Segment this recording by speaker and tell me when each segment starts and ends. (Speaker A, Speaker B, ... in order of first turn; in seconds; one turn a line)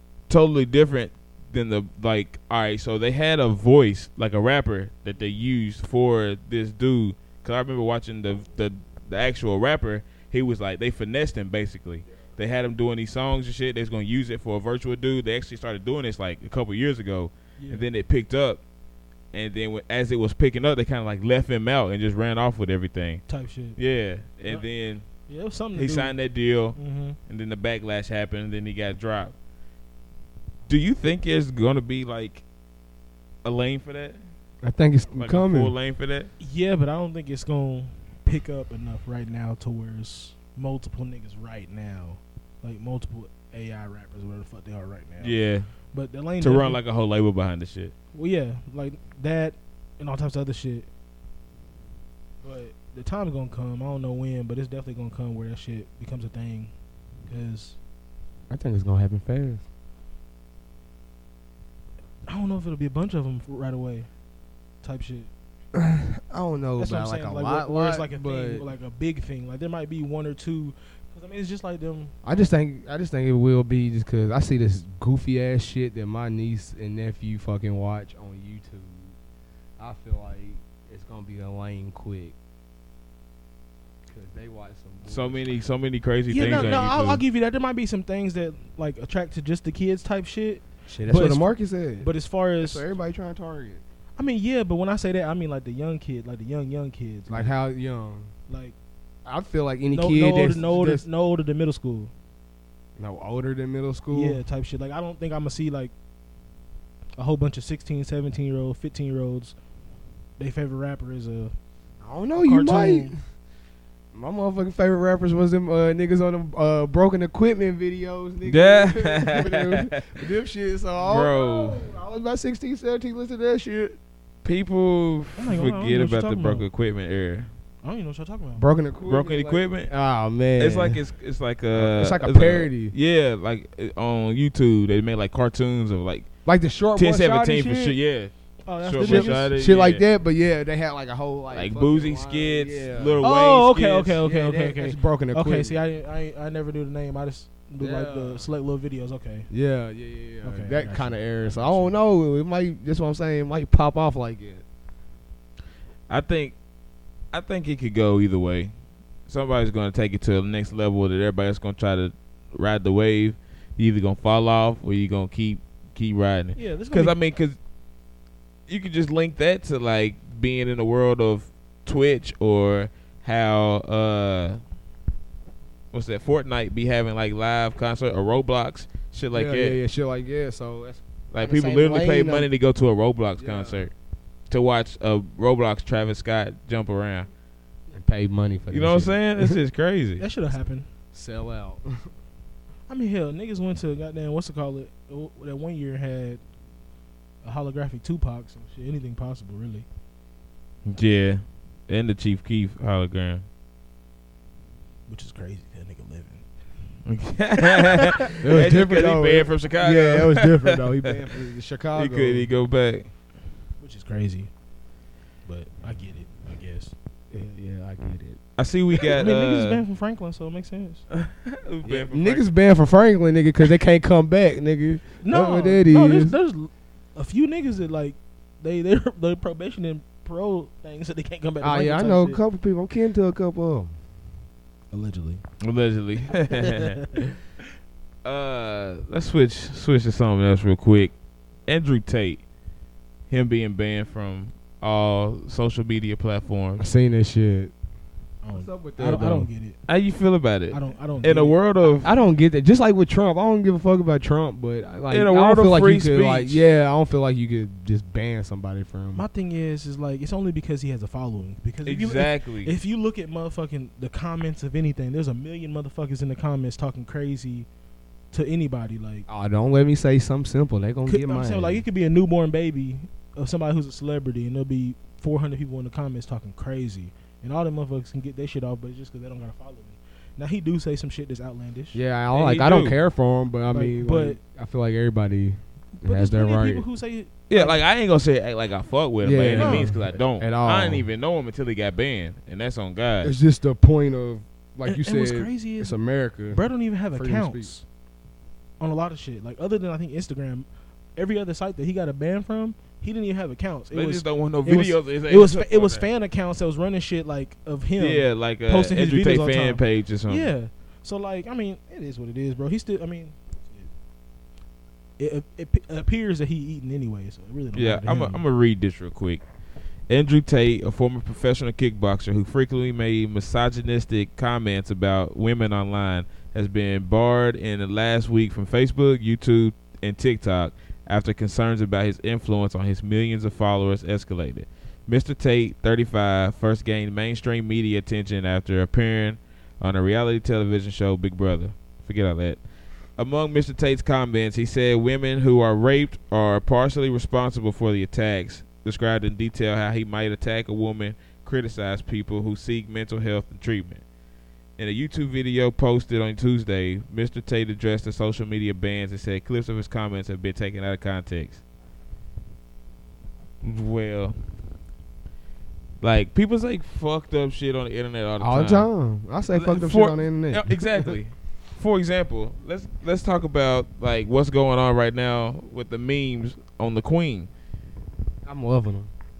Speaker A: 0.3-18.6
Speaker B: 17.6-17.9
Speaker A: 19.3-23.2
Speaker B: 23.3-23.8
Speaker A: 23.8-25.1
Speaker B: 25.3-26.1
Speaker A: 25.7-29.3
Speaker B: 26.8-27.2
Speaker A: 30.7-32.4
Speaker A: 33.4-34.2
Speaker C: 34.6-35.7
Speaker A: 35.2-36.3
Speaker B: 36.4-45.4
Speaker A: 45.2-45.7
Speaker B: 45.9-46.8
Speaker A: 46.4-47.9
Speaker B: 48.1-50.9
Speaker B: 52.4-56.7
Speaker B: 57.3-57.8
Speaker C: 58.5-59.6
Speaker B: 62.3-64.1
Speaker B: 64.8-65.3
Speaker C: 65.7-68.7
Speaker B: 66.8-72.4
Speaker C: 72.2-79.1
Speaker C: 79.8-82.3
Speaker C: 84.1-85.5
Speaker A: 85.0-87.2
Speaker B: 86.3-92.8
Speaker C: 86.4-86.9
Speaker C: 90.9-93.8
Speaker B: 94.2-97.5
Speaker C: 97.3-98.3
Speaker B: 98.5-98.7
Speaker C: 99.2-101.0
Speaker B: 99.9-102.1
Speaker C: 103.0-104.4
Speaker B: 104.1-105.9
Speaker B: 107.2-109.5
Speaker B: 110.4-111.5
Speaker C: 112.0-113.2
Speaker B: 112.4-113.1
Speaker C: 114.1-124.0
Speaker A: 118.4-120.0
Speaker A: 121.0-121.8
Speaker A: 124.4-127.5
Speaker B: 125.3-126.7
Speaker B: 127.8-128.7
Speaker C: 128.6-131.0
Speaker A: 129.1-129.9
Speaker A: 130.6-136.3
Speaker C: 131.7-132.9
Speaker C: 136.4-137.9
Speaker A: 136.9-140.0
Speaker B: 138.7-139.5
Speaker C: 139.0-143.2
Speaker A: 141.5-144.2
Speaker B: 143.2-149.5
Speaker C: 144.2-145.8
Speaker C: 147.8-148.5
Speaker C: 149.5-154.6
Speaker B: 150.4-151.9
Speaker A: 156.1-156.6
Speaker A: 157.3-158.7
Speaker A: 159.3-167.6
Speaker B: 166.6-167.2
Speaker A: 168.7-174.6
Speaker A: 175.9-179.8
Speaker C: 179.3-182.5
Speaker A: 181.3-183.9
Speaker C: 183.4-183.9
Speaker A: 184.5-187.3
Speaker C: 187.9-189.6
Speaker A: 188.7-190.2
Speaker B: 190.2-190.9
Speaker C: 191.1-192.1
Speaker B: 192.9-196.4
Speaker B: 197.4-199.8
Speaker A: 200.8-203.4
Speaker B: 205.1-206.4
Speaker A: 207.1-211.2
Speaker B: 207.8-208.1
Speaker C: 208.4-212.5
Speaker A: 211.9-213.1
Speaker B: 213.8-214.5
Speaker B: 215.4-216.9
Speaker C: 217.3-218.4
Speaker A: 218.6-219.8
Speaker B: 219.1-221.0
Speaker A: 221.1-222.4
Speaker C: 221.8-226.3
Speaker B: 225.2-232.4
Speaker C: 231.6-233.9
Speaker B: 234.9-235.4
Speaker A: 235.6-237.2
Speaker B: 236.6-237.3
Speaker A: 238.2-241.1
Speaker A: 241.7-242.4
Speaker A: 243.3-246.8
Speaker C: 246.8-247.7
Speaker B: 248.4-249.8
Speaker C: 248.5-249.5
Speaker A: 249.9-252.1
Speaker B: 250.7-251.6
Speaker C: 252.0-259.2
Speaker A: 255.1-256.6
Speaker B: 259.1-267.7
Speaker A: 261.8-262.7
Speaker B: 268.3-269.2
Speaker C: 269.3-271.8
Speaker B: 271.1-282.0
Speaker C: 281.9-286.8
Speaker A: 282.3-283.0
Speaker B: 283.7-284.4
Speaker B: 286.0-287.8
Speaker A: 287.5-293.3
Speaker C: 289.2-291.1
Speaker B: 289.6-289.9
Speaker C: 293.2-297.7
Speaker B: 294.9-296.0
Speaker B: 296.5-297.8
Speaker B: 298.8-313.9
Speaker A: 303.9-306.1
Speaker A: 308.0-310.5
Speaker B: 315.2-318.4
Speaker A: 317.7-319.4
Speaker A: 320.1-342.6
Speaker A: 343.2-354.0
Speaker A: 354.8-361.6
Speaker A: 363.6-364.4
Speaker A: 366.0-368.9
Speaker C: 368.4-371.1
Speaker A: 369.5-377.5
Speaker C: 378.4-379.1